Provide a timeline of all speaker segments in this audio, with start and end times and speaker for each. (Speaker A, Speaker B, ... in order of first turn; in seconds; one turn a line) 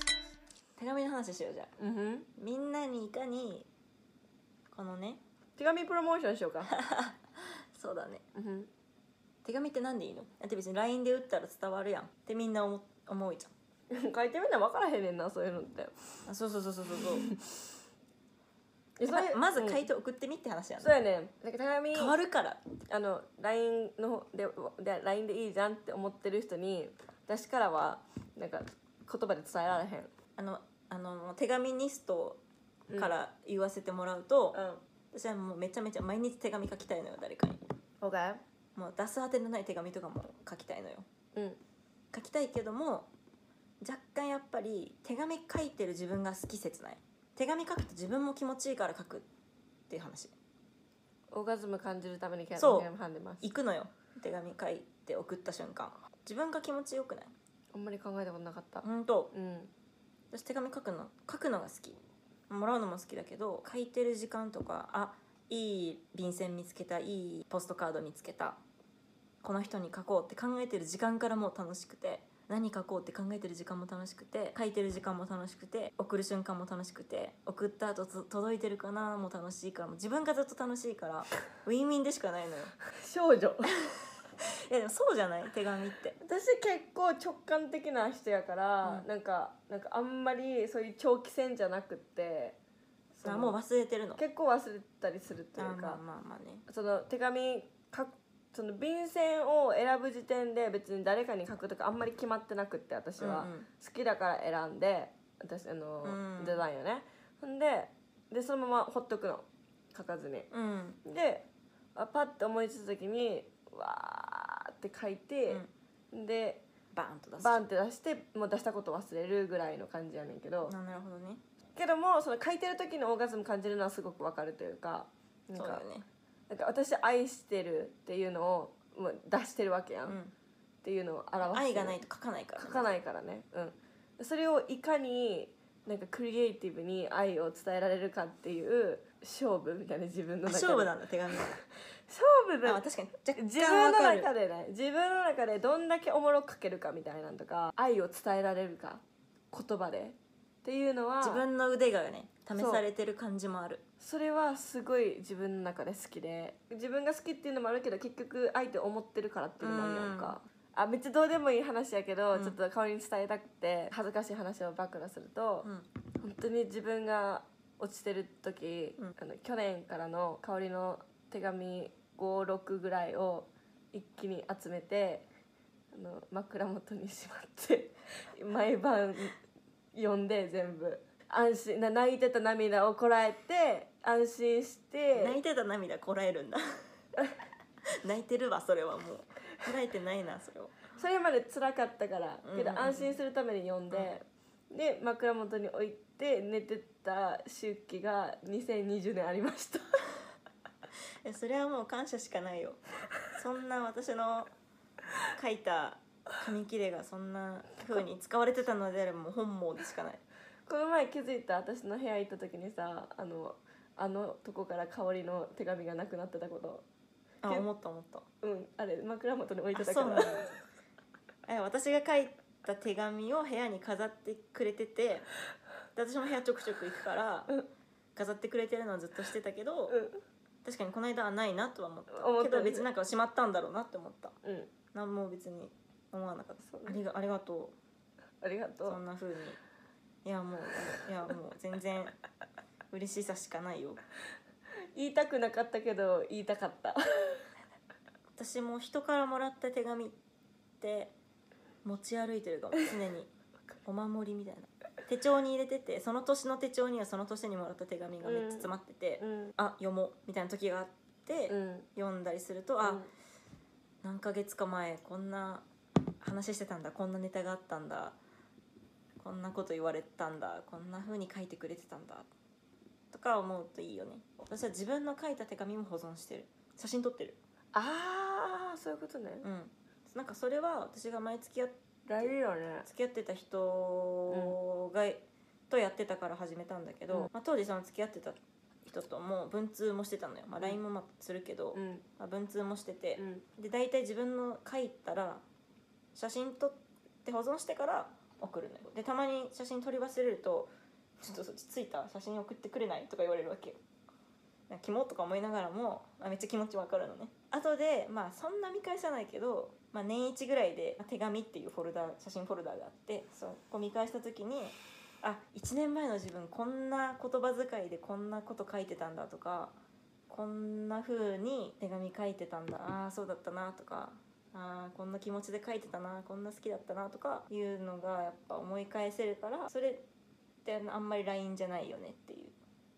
Speaker A: 0.8-1.7
Speaker B: 1.8-2.3
Speaker A: 2.4-3.7
Speaker A: 4.7-5.2
Speaker B: 5.6-6.7
Speaker A: 6.7-8.2
Speaker B: 8.3-8.7
Speaker A: 9.4-13.5
Speaker B: 13.9-16.0
Speaker A: 16.3-17.3
Speaker B: 17.2-17.5
Speaker B: 19.0-19.8
Speaker A: 19.1-20.9
Speaker B: 20.8-22.1
Speaker A: 21.9-22.6
Speaker B: 22.9-30.1
Speaker A: 30.4-32.4
Speaker A: 33.0-34.6
Speaker B: 34.5-34.8
Speaker A: 35.1-37.6
Speaker B: 38.0-38.4
Speaker A: 38.7-41.0
Speaker B: 41.3-41.6
Speaker A: 42.1-43.1
Speaker A: 43.8-49.2
Speaker A: 49.9-50.3
Speaker B: 51.3-53.5
Speaker A: 52.6-52.9
Speaker A: 53.4-57.3
Speaker B: 57.7-59.7
Speaker A: 58.8-59.3
Speaker A: 60.3-62.0
Speaker A: 62.5-68.6
Speaker A: 69.4-82.7
Speaker B: 83.0-83.7
Speaker A: 84.4-86.2
Speaker B: 86.2-92.6
Speaker B: 93.1-93.6
Speaker A: 93.2-94.2
Speaker B: 94.2-96.0
Speaker A: 95.6-96.6
Speaker B: 96.7-110.5
Speaker A: 103.2-103.7
Speaker A: 106.0-106.6
Speaker A: 110.5-111.0
Speaker B: 111.0-111.4
Speaker B: 112.0-116.6
Speaker A: 116.9-117.6
Speaker B: 117.4-120.7
Speaker A: 120.7-121.4
Speaker B: 121.8-125.8
Speaker A: 125.5-126.1
Speaker B: 126.5-130.2
Speaker A: 130.1-130.3
Speaker B: 130.8-132.0
Speaker A: 131.4-133.0
Speaker B: 132.6-142.8
Speaker A: 140.4-141.6
Speaker A: 142.6-144.3
Speaker B: 143.4-151.4
Speaker A: 151.2-153.8
Speaker B: 152.5-152.8
Speaker B: 154.0-165.7
Speaker A: 159.6-160.4
Speaker A: 165.6-165.9
Speaker B: 166.2-175.3
Speaker B: 175.9-179.4
Speaker B: 179.9-185.4
Speaker A: 185.2-186.6
Speaker A: 188.0-190.8
Speaker B: 190.9-200.0
Speaker A: 192.4-193.1
Speaker A: 201.2-204.5
Speaker A: 205.3-210.2
Speaker B: 210.7-216.8
Speaker A: 217.4-218.2
Speaker B: 218.4-220.5
Speaker A: 219.7-220.5
Speaker A: 221.5-225.3
Speaker A: 225.9-227.6
Speaker A: 228.2-230.0
Speaker B: 229.9-230.2
Speaker A: 230.6-234.3
Speaker B: 232.1-232.9
Speaker B: 234.4-234.7
Speaker A: 234.9-237.7
Speaker B: 236.7-237.0
Speaker B: 238.4-239.0
Speaker A: 238.8-239.6
Speaker A: 240.2-242.2
Speaker A: 242.9-244.0
Speaker B: 244.9-247.4
Speaker A: 248.3-250.2
Speaker A: 250.8-251.1
Speaker A: 251.8-253.3
Speaker A: 253.8-263.1
Speaker B: 258.2-259.5
Speaker B: 261.5-261.9
Speaker B: 262.8-263.1
Speaker A: 264.0-265.7
Speaker A: 266.2-268.2
Speaker A: 269.2-272.3
Speaker A: 273.1-277.4
Speaker B: 277.7-279.4
Speaker A: 279.4-282.2
Speaker B: 282.1-282.9
Speaker A: 282.8-295.4
Speaker B: 284.3-284.6
Speaker B: 291.7-292.0
Speaker B: 293.2-293.4
Speaker A: 296.1-303.8
Speaker A: 304.7-319.8
Speaker A: 320.3-330.1
Speaker A: 330.6-332.6